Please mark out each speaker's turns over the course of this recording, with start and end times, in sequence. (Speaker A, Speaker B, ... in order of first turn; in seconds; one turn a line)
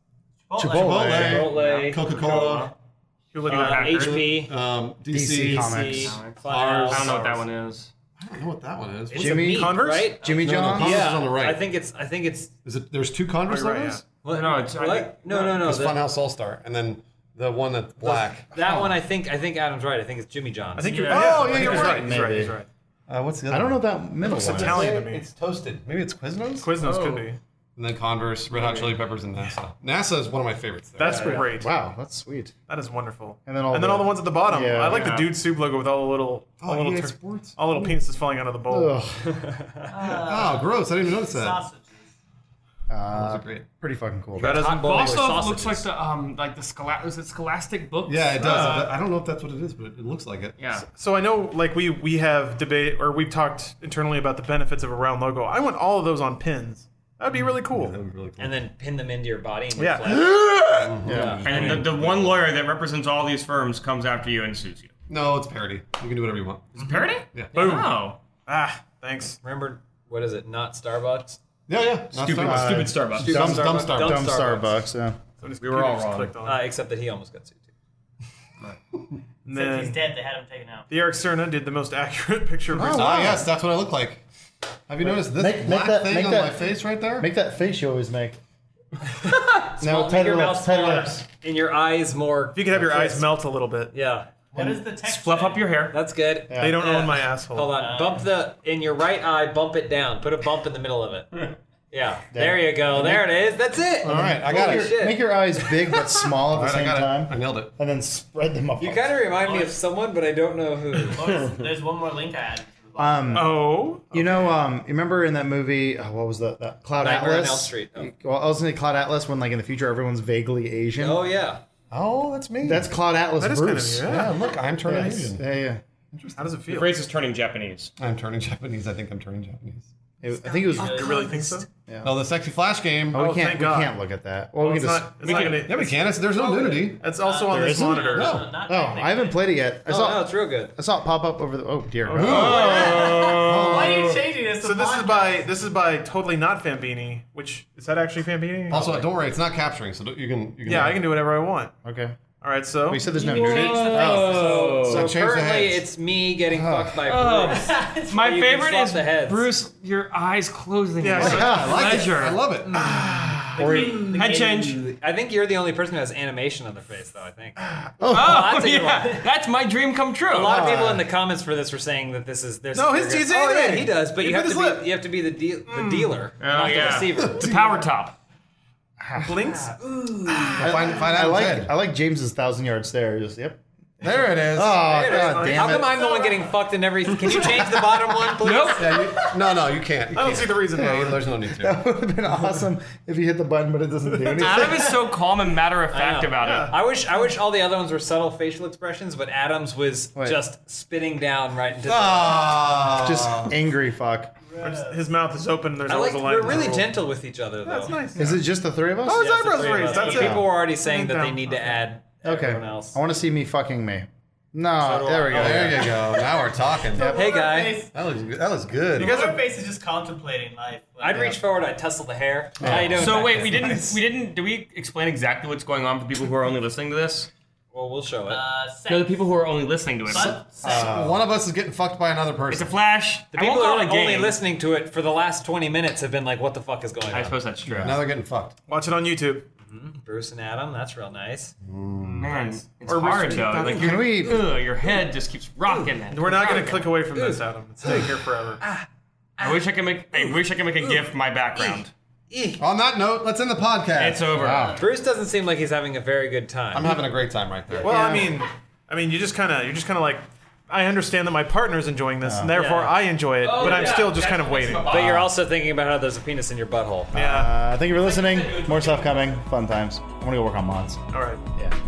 Speaker A: 0.5-1.2
Speaker B: 0.6-1.6
Speaker C: 0.6-2.7
Speaker D: 1.1-2.0
Speaker E: 1.5-2.7
Speaker F: 3.3-4.3
Speaker E: 3.4-4.4
Speaker D: 3.5-4.5
Speaker C: 4.4-7.4
Speaker B: 5.1-6.2
Speaker D: 5.4-7.2
Speaker E: 5.9-7.9
Speaker C: 8.2-9.4
Speaker D: 9.1-12.5
Speaker B: 9.1-11.1
Speaker F: 9.3-10.2
Speaker C: 10.3-11.6
Speaker C: 12.6-14.0
Speaker F: 13.5-14.0
Speaker D: 14.2-16.0
Speaker E: 14.2-15.2
Speaker C: 15.3-18.5
Speaker D: 18.5-21.2
Speaker B: 18.5-19.0
Speaker F: 20.8-22.6
Speaker E: 20.8-22.5
Speaker C: 21.1-22.1
Speaker B: 21.5-22.6
Speaker C: 23.1-26.8
Speaker B: 23.5-24.9
Speaker F: 24.3-25.3
Speaker F: 26.6-27.4
Speaker E: 26.8-27.2
Speaker C: 27.8-31.3
Speaker E: 28.5-29.1
Speaker F: 31.0-31.7
Speaker D: 31.0-31.4
Speaker E: 31.0-31.5
Speaker B: 31.6-32.5
Speaker F: 32.7-39.0
Speaker B: 33.5-35.1
Speaker E: 34.8-35.4
Speaker C: 36.6-38.0
Speaker B: 38.7-39.3
Speaker D: 39.3-39.9
Speaker A: 39.8-42.1
Speaker C: 40.0-41.6
Speaker B: 42.9-45.4
Speaker C: 43.1-43.6
Speaker D: 44.3-45.9
Speaker E: 44.7-48.9
Speaker C: 48.0-50.5
Speaker F: 48.4-48.9
Speaker E: 50.6-50.9
Speaker F: 50.9-57.9
Speaker C: 57.7-58.6
Speaker D: 58.4-60.3
Speaker F: 59.8-60.9
Speaker C: 60.8-62.5
Speaker B: 61.0-61.6
Speaker D: 61.1-61.9
Speaker E: 61.4-64.9
Speaker C: 65.1-67.5
Speaker E: 66.8-68.2
Speaker F: 67.5-69.4
Speaker D: 69.4-71.4
Speaker C: 71.7-74.3
Speaker E: 72.1-73.5
Speaker B: 72.4-75.2
Speaker D: 73.1-74.8
Speaker F: 75.4-76.7
Speaker E: 75.6-76.4
Speaker D: 76.4-77.7
Speaker F: 79.4-80.0
Speaker A: 79.5-80.8
Speaker F: 80.9-83.4
Speaker B: 82.7-83.5
Speaker C: 82.9-84.2
Speaker C: 84.9-87.3
Speaker B: 85.0-88.4
Speaker D: 89.2-93.3
Speaker B: 89.8-91.2
Speaker F: 92.5-93.9
Speaker D: 93.9-94.3
Speaker A: 94.5-95.7
Speaker B: 94.5-94.8
Speaker E: 94.9-96.0
Speaker D: 95.9-105.3
Speaker B: 96.5-96.8
Speaker F: 96.5-97.8
Speaker A: 97.7-98.2
Speaker B: 102.3-103.3
Speaker C: 104.0-104.9
Speaker B: 104.0-109.2
Speaker C: 106.5-107.7
Speaker D: 108.8-111.2
Speaker A: 109.4-109.7
Speaker A: 111.0-113.5
Speaker B: 113.0-121.2
Speaker F: 113.3-114.5
Speaker D: 117.0-118.1
Speaker D: 121.0-121.6
Speaker C: 121.9-122.9
Speaker B: 122.6-124.3
Speaker F: 123.4-124.5
Speaker C: 124.0-125.5
Speaker B: 124.8-125.8
Speaker C: 126.1-126.6
Speaker F: 126.4-127.0
Speaker E: 126.7-127.9
Speaker C: 128.0-129.9
Speaker B: 130.2-131.2
Speaker A: 130.3-131.6
Speaker F: 130.7-131.7
Speaker B: 131.9-132.1
Speaker C: 132.0-133.2
Speaker B: 133.1-135.6
Speaker F: 133.2-134.0
Speaker F: 134.6-136.2
Speaker C: 135.5-137.1
Speaker A: 136.3-139.4
Speaker F: 136.9-138.4
Speaker B: 137.5-142.7
Speaker C: 138.1-138.6
Speaker D: 139.9-140.8
Speaker F: 142.0-142.9
Speaker C: 142.1-144.2
Speaker E: 142.2-144.2
Speaker A: 142.5-145.4
Speaker F: 144.6-149.0
Speaker C: 148.7-151.0
Speaker F: 150.7-151.7
Speaker B: 151.8-152.2
Speaker F: 152.4-153.1
Speaker B: 152.9-155.1
Speaker D: 153.1-159.5
Speaker A: 153.2-154.0
Speaker E: 153.3-155.1
Speaker C: 154.8-155.8
Speaker B: 156.5-157.1
Speaker E: 157.0-164.8
Speaker A: 157.5-158.2
Speaker F: 161.0-161.9
Speaker C: 161.2-162.8
Speaker B: 161.2-161.8
Speaker D: 162.8-163.2
Speaker A: 163.5-164.8
Speaker D: 164.6-169.2
Speaker B: 168.0-168.4
Speaker E: 168.1-170.7
Speaker D: 170.3-177.5
Speaker C: 170.5-171.0
Speaker F: 172.7-174.9
Speaker F: 175.7-176.2
Speaker E: 176.4-178.2
Speaker C: 177.2-177.6
Speaker B: 179.0-179.4
Speaker F: 179.2-179.8
Speaker D: 179.7-180.9
Speaker C: 180.6-181.7
Speaker B: 180.6-183.6
Speaker C: 184.0-184.8
Speaker B: 184.3-186.0
Speaker D: 184.8-189.2
Speaker F: 185.1-185.8
Speaker A: 186.0-186.2
Speaker E: 188.4-189.1
Speaker C: 188.8-191.8
Speaker F: 190.1-191.2
Speaker B: 191.5-195.0
Speaker E: 194.3-196.8
Speaker D: 195.9-202.8
Speaker F: 196.4-196.8
Speaker B: 200.2-200.4
Speaker C: 201.8-203.5
Speaker B: 203.0-204.3
Speaker A: 204.5-204.9
Speaker F: 204.6-206.9
Speaker D: 205.8-208.0
Speaker F: 207.6-208.4
Speaker B: 208.1-209.3
Speaker F: 209.0-211.8
Speaker D: 209.1-213.0
Speaker A: 209.8-210.4
Speaker B: 212.2-216.0
Speaker D: 214.8-216.3
Speaker C: 215.3-217.2
Speaker A: 216.9-217.9
Speaker D: 217.0-217.8
Speaker C: 217.9-219.2
Speaker F: 218.9-219.4
Speaker A: 218.9-221.3
Speaker D: 221.0-223.4
Speaker C: 222.6-224.0
Speaker B: 222.6-222.9
Speaker E: 222.8-227.3
Speaker D: 227.7-228.4
Speaker A: 228.3-229.2
Speaker E: 228.9-230.4
Speaker A: 230.1-231.0
Speaker C: 230.2-232.7
Speaker B: 230.3-231.0
Speaker E: 232.5-234.4
Speaker D: 233.3-237.4
Speaker E: 237.1-238.0
Speaker C: 237.7-238.6
Speaker F: 238.7-239.5
Speaker D: 239.6-241.5
Speaker C: 241.6-242.3
Speaker E: 242.1-246.8
Speaker F: 242.8-243.8
Speaker B: 243.7-244.6
Speaker D: 245.6-247.4
Speaker F: 246.1-248.6
Speaker D: 248.6-248.8
Speaker D: 249.4-252.6
Speaker E: 249.4-251.9
Speaker C: 252.6-254.2
Speaker E: 253.9-254.8
Speaker B: 254.3-254.8
Speaker D: 254.7-257.0
Speaker C: 256.7-258.2
Speaker D: 257.7-258.2
Speaker F: 257.8-265.2
Speaker B: 262.2-262.5
Speaker D: 262.5-262.9
Speaker E: 263.4-265.3
Speaker D: 263.6-264.0
Speaker D: 264.9-267.1
Speaker B: 267.1-271.0
Speaker F: 267.1-267.6
Speaker E: 267.9-269.4
Speaker F: 271.1-271.4